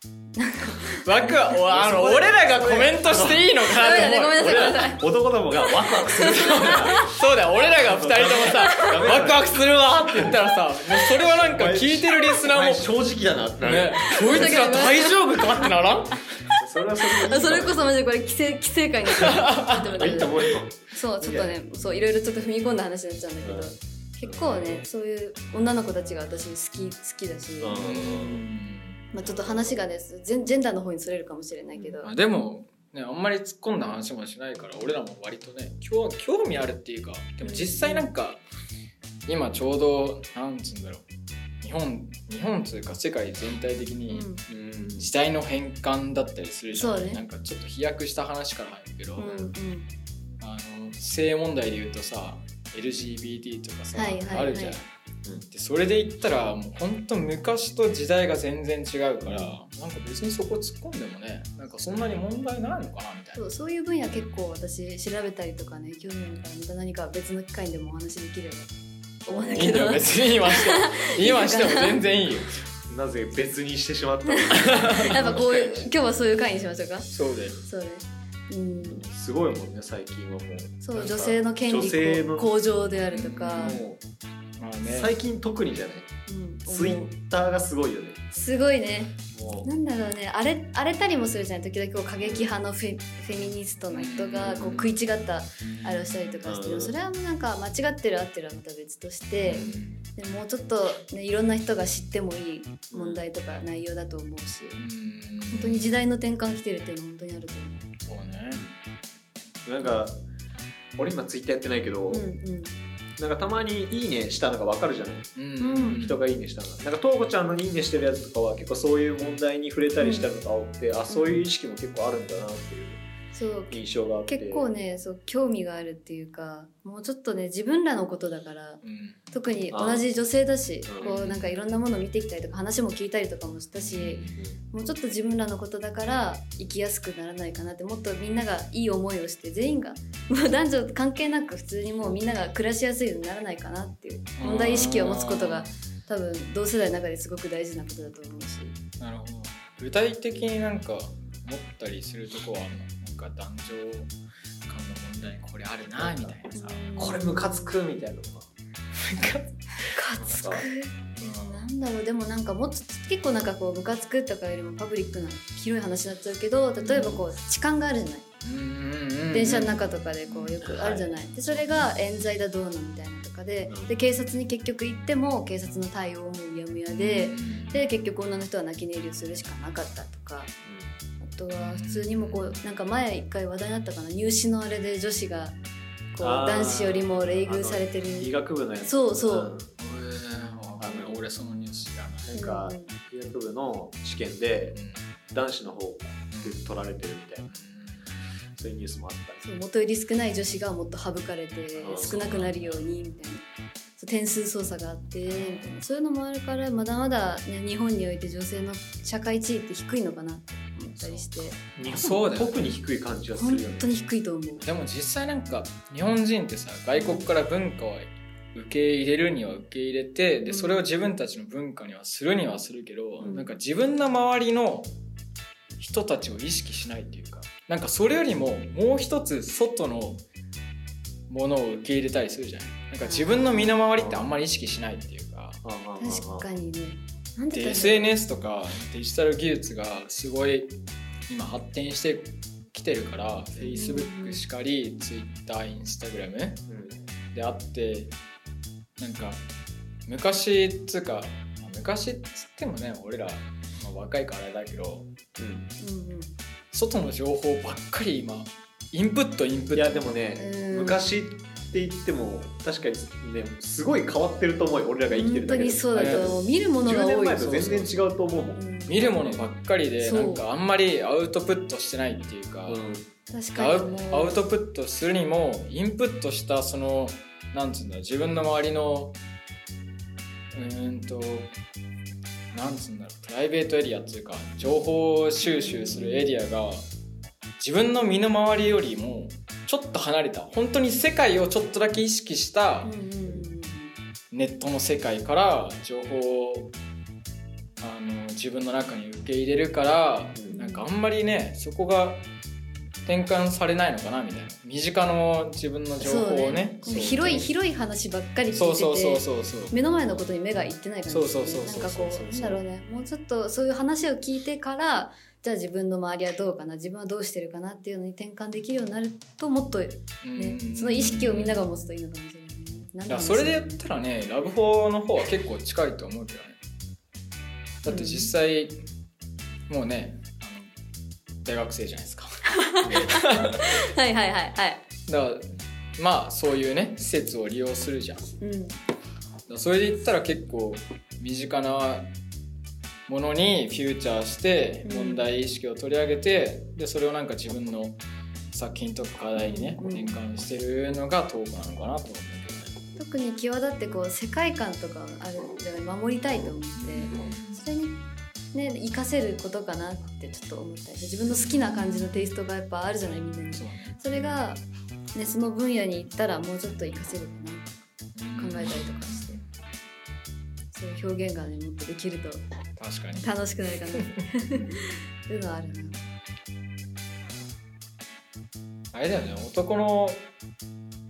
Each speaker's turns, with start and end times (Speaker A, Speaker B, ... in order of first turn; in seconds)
Speaker A: 0.3-1.4, 3.6-5.0, 5.6-7.1, 8.6-8.9, 14.1-15.7, 17.0-27.8, 29.1-32.1, 37.4-38.1, 44.1-44.4, 46.7-47.2, 49.2-49.9, 53.9-54.8, 63.4-68.7, 69.2-72.0, 74.2-77.1, 77.6-79.0, 80.8-83.8, 86.3-87.1, 88.3-104.8, 105.5-107.9, 112.1-112.7, 115.6-116.0, 120.0-120.3, 121.1-121.4, 123.3-148.8, 156.5-157.8, 159.9-168.2, 169.3-180.5, 181.2-185.6, 186.1-189.5, 192.3-192.9, 199.4-203.4, 204.0-211.6, 213.3-214.7, 216.9-217.3, 220.4-220.8, 223.2-223.5, 233.0-233.8, 236.0-238.1, 243.6-244.4, 255.8-256.3, 260.4-261.1, 265.1-267.9, 268.5-269.0, 270.0-270.4, 273.3-274.4, 285.4-286.3, 292.8-293.9, 300.5-300.9, 306.0-323.8, 327.9-328.3, 332.6-334.8, 338.4-338.8, 344.8-345.2, 349.4-350.1, 353.0-358.0, 358.5-364.6, 365.1-367.8, 368.4-369.4, 370.7-372.4, 373.2-376.0
Speaker B: 1.0-4.9, 6.2-12.9, 13.6-16.3, 19.1-20.1, 27.8-29.1, 32.0-38.4, 39.3-41.0, 41.6-44.3, 45.0-49.5, 50.4-54.9, 55.5-63.4, 69.4-72.6, 74.6-75.2, 77.1-77.6, 83.1-83.8, 84.6-85.1, 93.9-94.9, 95.6-96.3, 99.4-100.0, 104.8-105.9, 108.0-108.6, 115.3-116.2, 128.8-129.2, 131.0-131.6, 133.8-134.3, 144.4-145.7, 149.0-154.1, 154.6-156.8, 158.9-159.9, 161.2-161.7, 168.4-170.6, 176.9-177.8, 181.5-182.6, 189.8-192.3, 194.7-195.1, 196.3-196.6, 197.5-198.1, 201.9-202.8, 205.3-205.7, 210.9-212.7, 214.6-224.9, 225.8-230.2, 231.3-235.6, 237.5-240.7, 241.3-246.7, 247.3-248.1, 249.0-249.4, 250.1-255.1, 256.7-260.1, 265.9-266.4, 268.9-272.8, 273.6-279.2, 280.5-281.5, 282.5-286.8, 287.6-292.9, 294.3-296.7, 297.8-302.2, 303.0-307.5, 308.5-309.8, 311.1-312.5, 320.2-321.6, 323.1-326.6, 327.8-328.8, 329.7-330.7, 331.4-333.7, 335.1-338.3, 339.5-342.1, 343.1-348.0, 348.5-352.7, 356.8-357.6, 361.3-362.1, 363.5-364.4, 368.1-369.5, 372.8-373.3, 378.9-380.2
Speaker C: 1.6-7.1, 7.8-10.4, 11.1-14.6, 16.5-17.8, 19.9-21.5, 23.4-23.7, 24.2-24.8, 27.6-28.4, 29.2-29.7, 44.5-45.1, 69.3-69.8, 72.9-75.9, 78.8-82.5, 83.6-84.0, 84.8-86.1, 86.7-88.2, 89.3-89.7, 92.2-92.5, 96.4-96.9, 99.5-99.8, 102.9-103.2, 109.6-110.2, 111.0-112.2, 113.2-123.0, 123.7-124.6, 129.7-130.0, 130.9-131.1, 156.0-156.3, 157.0-158.5, 160.1-160.6, 166.8-167.2, 170.6-171.1, 173.7-173.9, 180.6-180.9, 186.2-189.7, 190.8-191.2, 192.2-194.8, 195.3-197.5, 198.6-199.4, 201.8-202.2, 211.8-213.9, 233.9-234.3, 235.6-236.4, 246.7-247.0, 255.4-255.7, 259.7-269.4, 272.7-273.1, 306.9-307.2, 332.8-333.1